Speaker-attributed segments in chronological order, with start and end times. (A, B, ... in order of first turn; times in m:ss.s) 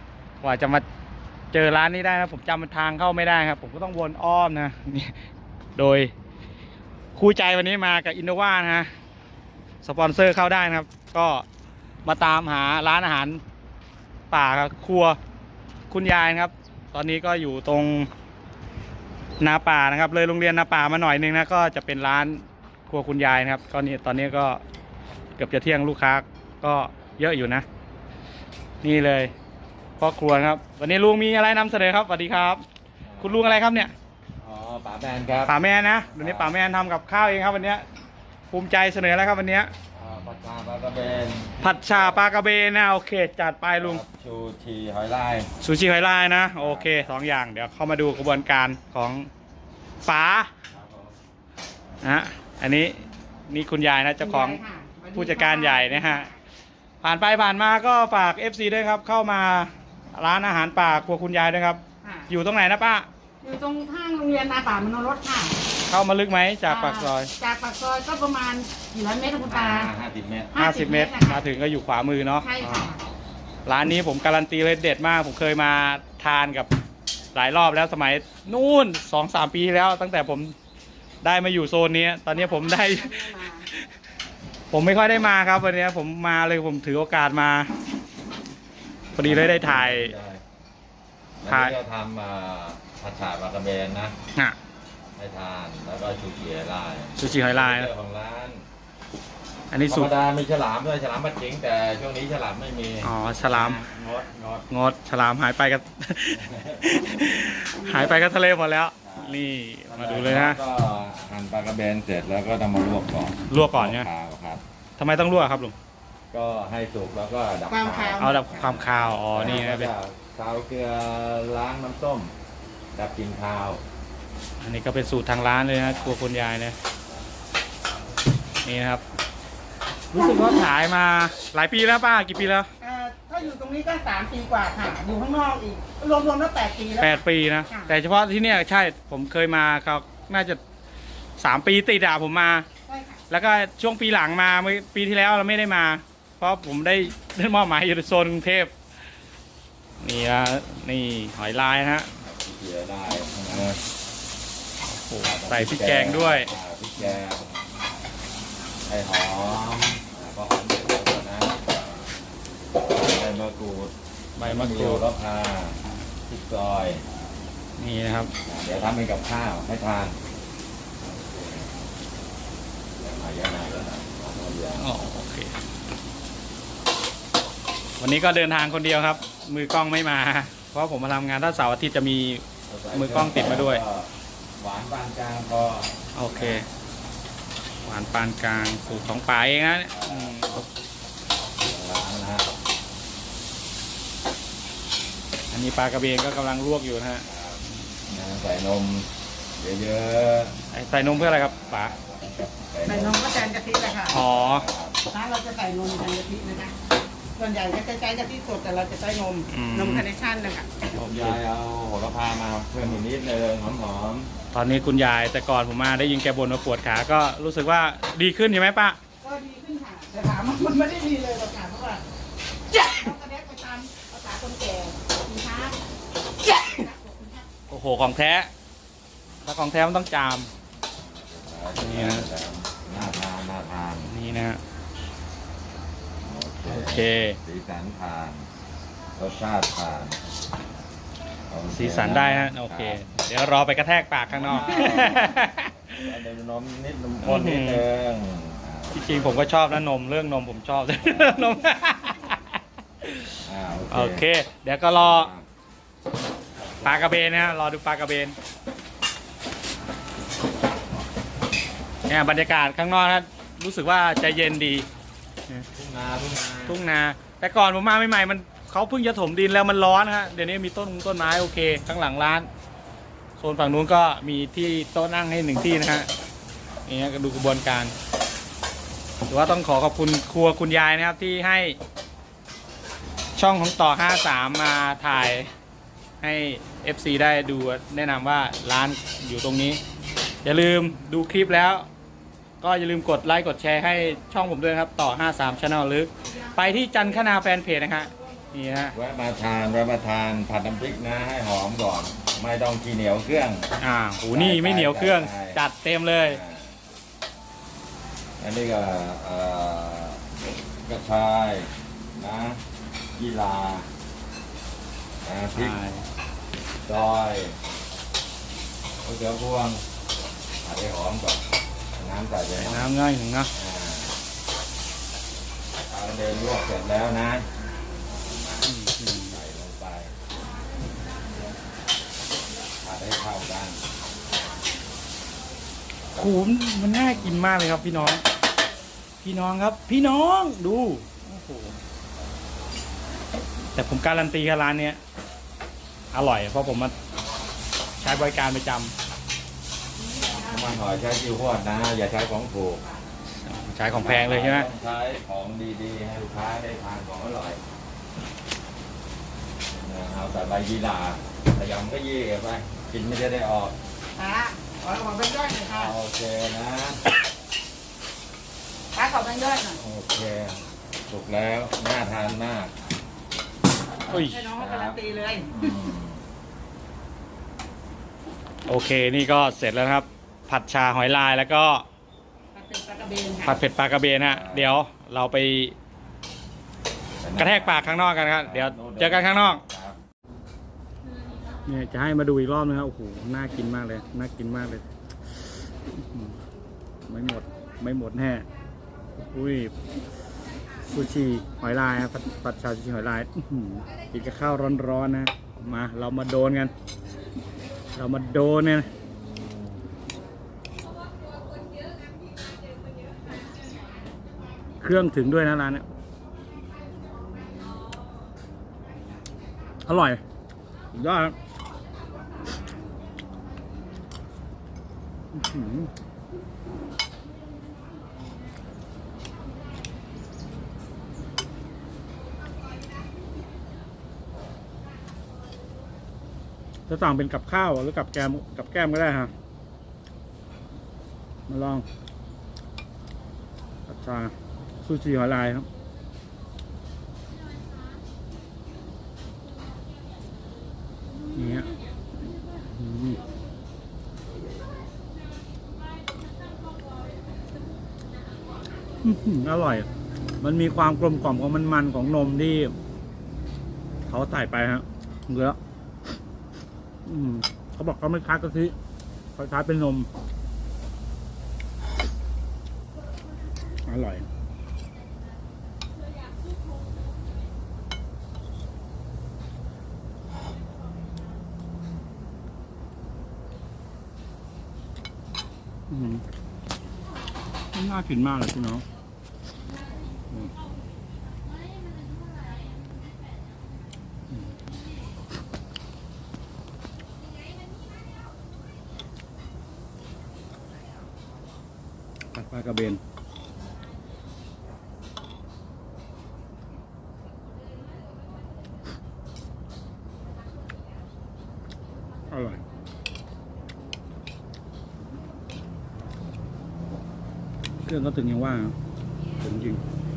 0:00.4-0:00.8 A
0:01.5-0:05.2 A
0:05.8-0:06.1 A
0:07.1-0:08.9 A
0:09.8-0:11.4 A
0:12.0-0:13.4 A
0:14.3-0:15.2 A
0:15.9-0:18.1 A
0:19.4-0:24.6 A
0:25.4-0:27.6 A
0:28.8-0:29.3 A
0:30.0-0:32.6 A
0:33.0-0:33.6 B
0:33.2-0:33.9 A
0:34.4-0:35.6 B
0:35.4-0:37.8 A
0:36.1-0:36.6 B
0:38.5-0:39.7 A
0:39.9-0:42.2 B
0:41.6-0:44.0 A
0:43.8-0:45.5 B
0:45.6-0:49.3 A
0:46.6-0:47.1 B
0:50.0-0:50.5 A
0:50.7-0:51.2 B
0:52.0-0:54.6 A
0:54.2-0:56.4 C
0:55.1-0:56.3 A
0:57.0-1:03.1 A
1:02.0-1:02.3 C
1:03.4-1:05.6 C
1:05.9-1:07.3 A
1:06.7-1:09.9 C
1:09.3-1:10.6 B
1:10.5-1:11.4 C
1:10.6-1:12.9 A
1:12.4-1:13.0 C
1:13.7-1:16.7 A
1:17.3-1:20.6 A
1:21.2-1:23.8 A
1:22.3-1:23.7 C
1:24.7-1:27.7 A
1:29.1-1:30.4 B
1:29.1-1:30.1 A
1:31.4-1:34.1 B
1:31.4-1:31.8 A
1:35.1-1:38.7 B
1:37.2-1:37.9 A
1:39.7-1:40.1 A
1:39.9-1:44.7 B
1:43.0-1:43.8 A
1:44.7-1:50.6 A
1:46.3-1:47.2 B
1:47.8-1:48.2 C
1:49.0-1:54.6 B
1:53.5-1:54.1 A
1:55.0-1:55.8 A
1:56.3-2:02.3 B
1:57.7-1:58.3 C
1:58.2-1:59.9 A
2:02.9-2:03.8 B
2:04.6-2:06.8 A
2:05.8-2:06.2 B
2:08.6-2:09.0 A
2:10.1-2:12.7 A
2:12.8-2:17.2 C
2:17.0-2:20.6 A
2:21.4-2:22.6 A
2:22.9-2:23.2 C
2:23.3-2:28.7 A
2:30.0-2:32.1 A
2:32.2-2:33.8 B
2:34.9-2:36.5 A
2:35.2-2:37.6 B
2:38.8-2:42.1 B
2:42.8-2:47.0 B
2:44.4-2:45.0 A
2:47.8-2:48.3 A
2:48.4-2:50.2 B
2:51.0-2:51.7 B
2:53.0-2:54.9 B
2:54.8-2:55.5 A
2:58.0-3:03.8 A
3:02.7-3:06.6 B
3:06.1-3:06.7 A
3:07.8-3:10.6 A
3:09.9-3:10.5 B
3:11.6-3:12.5 B
3:15.5-3:17.2 A
3:17.2-3:23.4 B
3:20.7-3:21.9 A
3:22.9-3:24.2 C
3:24.1-3:24.6 A
3:24.1-3:25.0 B
3:25.1-3:26.7 C
3:27.4-3:30.7 C
3:29.5-3:30.0 A
3:30.9-3:31.4 A
3:30.9-3:34.3 B
3:34.5-3:39.0 A
3:39.2-3:42.0 C
3:42.7-3:45.8 C
3:46.4-3:47.5 C
3:47.7-3:48.5 A
3:49.4-3:50.5 A
3:51.0-3:54.1 B
3:51.8-3:52.3 A
3:54.1-3:54.6 A
3:56.2-3:58.5 B
3:56.6-3:57.4 A
3:59.2-4:00.2 B
4:01.5-4:03.0 B
4:01.7-4:06.1 A
4:04.3-4:05.4 B
4:06.0-4:09.7 B
4:07.2-4:07.8 A
4:08.9-4:12.4 A
4:13.0-4:15.3 A
4:13.4-4:14.2 B
4:14.9-4:15.5 B
4:16.6-4:17.6 B
4:16.8-4:18.4 A
4:22.1-4:24.9 A
4:25.7-4:26.8 B
4:26.7-4:32.5 A
4:33.4-4:36.1 A
4:36.9-4:37.9 A
4:39.3-4:41.8 A
4:43.4-4:45.5 A
4:46.2-4:49.8 A
4:50.4-4:51.9 A
4:52.6-4:58.9 A
4:56.3-4:57.0 C
4:58.9-5:03.7 B
5:03.8-5:06.4 A
5:04.3-5:05.6 B
5:06.2-5:06.8 B
5:08.4-5:10.2 B
5:10.8-5:12.6 B
5:13.2-5:13.9 B
5:15.2-5:15.8 B
5:15.5-5:16.0 A
5:16.8-5:17.6 B
5:19.0-5:19.8 B
5:20.6-5:22.9 B
5:22.6-5:23.5 A
5:23.5-5:24.2 B
5:25.9-5:27.5 B
5:28.6-5:29.4 A
5:29.2-5:30.2 B
5:32.8-5:33.8 B
5:36.2-5:38.2 A
5:39.2-5:41.8 A
5:43.8-5:45.0 A
5:46.1-5:46.9 A
5:48.0-5:48.9 A
5:50.0-5:50.7 C
5:50.4-5:52.9 B
5:53.4-5:54.7 A
5:53.9-5:57.6 B
5:59.7-6:03.8 B
6:04.2-6:05.9 C
6:05.6-6:07.1 B
6:08.9-6:09.8 C
6:09.8-6:12.7 B
6:14.1-6:14.5 A
6:14.1-6:15.6 C
6:14.5-6:16.2 B
6:18.7-6:21.8 A
6:22.5-6:23.6 C
6:23.4-6:25.8 A
6:24.2-6:24.8 B
6:27.2-6:30.0 B
6:27.4-6:29.6 A
6:31.6-6:34.8 A
6:35.9-6:36.4 A
6:37.1-6:38.5 A
6:39.2-6:39.8 A
6:40.8-6:46.7 A
6:47.9-6:48.9 A
6:53.2-6:55.3 C
6:54.8-6:55.9 A
6:56.2-6:58.1 C
6:58.8-6:59.8 C
6:59.9-7:00.2 A
7:00.9-7:01.4 A
7:02.2-7:02.6 C
7:05.3-7:05.9 A
7:16.9-7:19.3 A
7:21.5-7:21.8 A
7:23.9-7:25.7 A
7:31.3-7:31.7 A
7:32.7-7:33.2 A
7:39.0-7:39.9 A
7:40.4-7:42.7 A
7:44.1-7:45.6 A
7:47.1-7:48.8 A
7:49.4-7:50.1 A
7:53.8-7:54.2 A
8:05.9-8:06.2 A
8:07.7-8:08.8 A
8:22.3-8:23.0 A
8:32.3-8:32.6 A
8:37.8-8:38.8 A
8:39.4-8:39.8 A